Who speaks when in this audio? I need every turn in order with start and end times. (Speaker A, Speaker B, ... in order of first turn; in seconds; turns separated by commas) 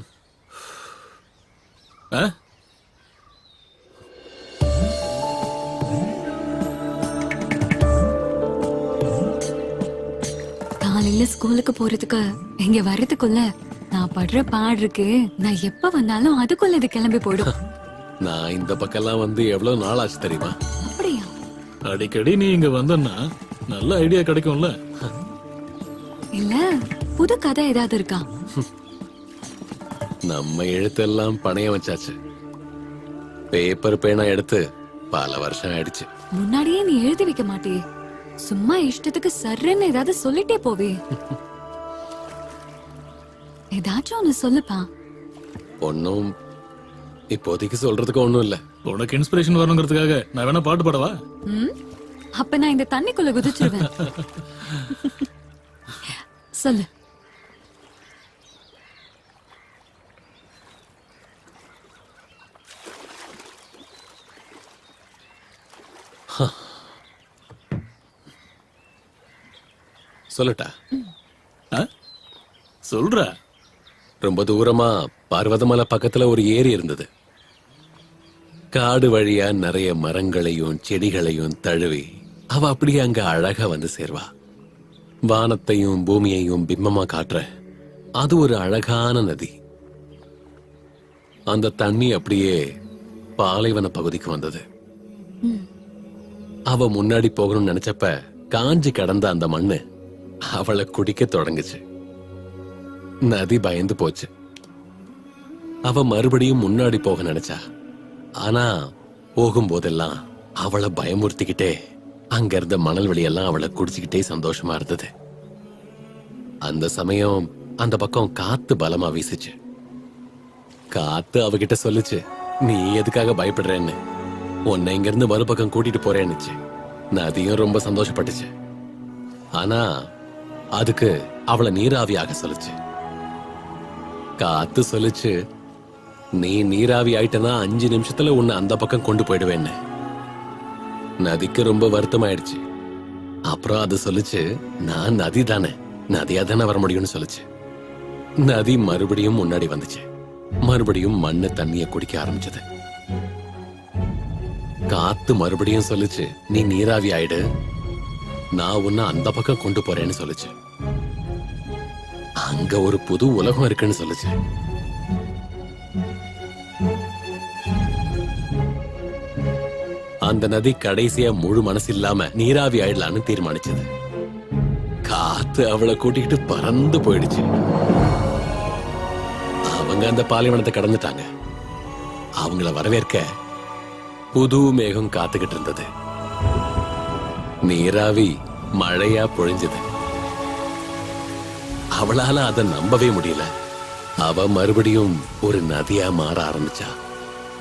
Speaker A: 10.8-17.5, Speaker B: 18.2-20.6, Speaker A: 20.8-21.3, Speaker C: 21.9-23.1, Speaker C: 23.7-24.7, Speaker A: 26.4-26.6, Speaker A: 27.1-28.2, Speaker B: 30.3-32.2, Speaker B: 33.5-36.1, Speaker A: 36.4-37.8, Speaker A: 38.5-41.0, Speaker A: 43.8-44.9, Speaker B: 45.8-46.2, Speaker B: 47.3-48.6, Speaker C: 48.9-51.1, Speaker A: 51.5-51.7, Speaker A: 52.4-53.9, Speaker C: 53.7-54.8, Speaker A: 56.0-56.9, Speaker B: 66.3-66.8, Speaker B: 70.3-70.7, Speaker C: 72.9-73.2, Speaker B: 74.2-77.1, Speaker B: 78.7-84.3, Speaker B: 85.3-87.4, Speaker B: 88.2-89.5, Speaker B: 91.5-92.6, Speaker B: 93.4-94.6, Speaker B: 96.7-99.8, Speaker B: 100.5-101.8, Speaker B: 103.3-104.3, Speaker B: 105.9-107.6, Speaker B: 108.4-108.7, Speaker B: 109.4-111.7, Speaker B: 112.4-115.1, Speaker B: 116.7-119.5, Speaker B: 120.9-124.0, Speaker B: 124.7-126.5, Speaker B: 127.2-128.5, Speaker B: 129.6-129.8, Speaker B: 130.8-132.8, Speaker B: 134.4-135.3, Speaker B: 136.4-139.8, Speaker B: 141.2-142.6, Speaker B: 143.5-147.4, Speaker B: 148.4-150.0, Speaker B: 150.7-152.6, Speaker B: 154.9-157.4, Speaker B: 158.6-160.5, Speaker B: 162.4-164.4, Speaker B: 170.3-173.9, Speaker B: 175.1-177.5, Speaker B: 179.7-181.3, Speaker B: 182.4-183.2, Speaker B: 184.3-185.9, Speaker B: 187.7-188.3, Speaker B: 188.8-189.8, Speaker B: 192.0-193.5, Speaker B: 194.2-196.9